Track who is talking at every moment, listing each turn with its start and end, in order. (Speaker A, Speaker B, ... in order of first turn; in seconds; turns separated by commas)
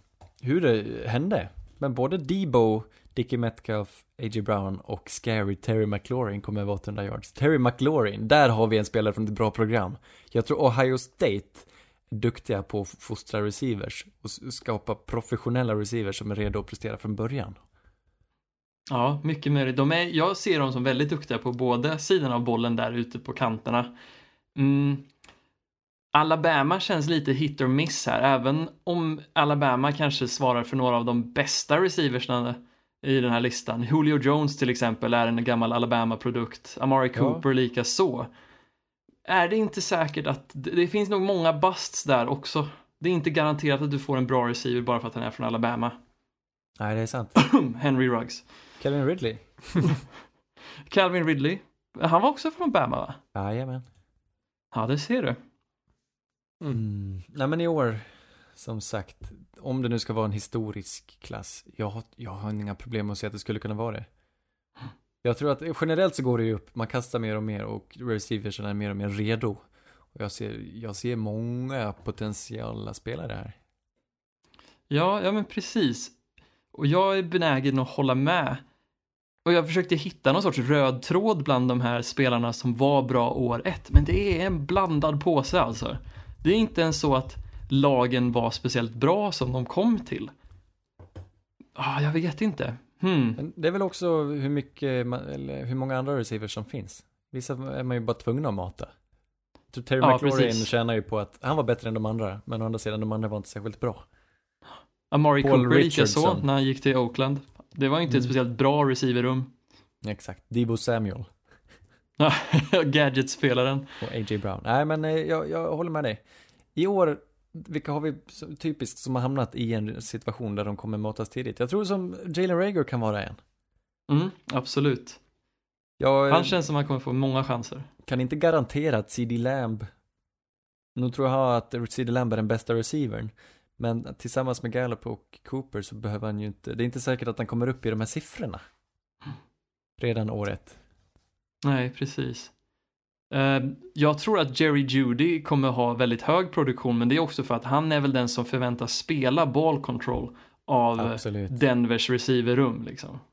Speaker A: 0.4-17.6, Speaker B: 18.9-23.9, Speaker B: 24.6-25.1, Speaker B: 26.1-38.3, Speaker A: 37.1-37.4, Speaker B: 39.2-46.0, Speaker A: 46.8-47.4, Speaker B: 47.4-48.5, Speaker A: 48.8-49.4, Speaker B: 50.9-53.2, Speaker A: 53.4-53.9, Speaker B: 54.7-55.4, Speaker A: 56.7-64.1, Speaker A: 65.2-73.6, Speaker B: 74.9-76.2, Speaker B: 76.7-78.6, Speaker B: 79.5-90.3, Speaker B: 91.8-93.4, Speaker A: 93.4-98.9, Speaker A: 99.7-104.0, Speaker B: 100.0-100.7, Speaker B: 105.1-109.5, Speaker A: 105.4-106.5, Speaker A: 110.0-111.3, Speaker B: 112.2-113.9, Speaker A: 114.0-116.2, Speaker A: 116.8-123.4, Speaker B: 124.1-125.2, Speaker A: 126.0-126.6, Speaker B: 126.3-127.9, Speaker A: 128.1-129.9, Speaker A: 130.9-138.6, Speaker A: 140.0-140.8, Speaker B: 141.6-142.5, Speaker B: 143.3-153.2, Speaker A: 151.0-151.5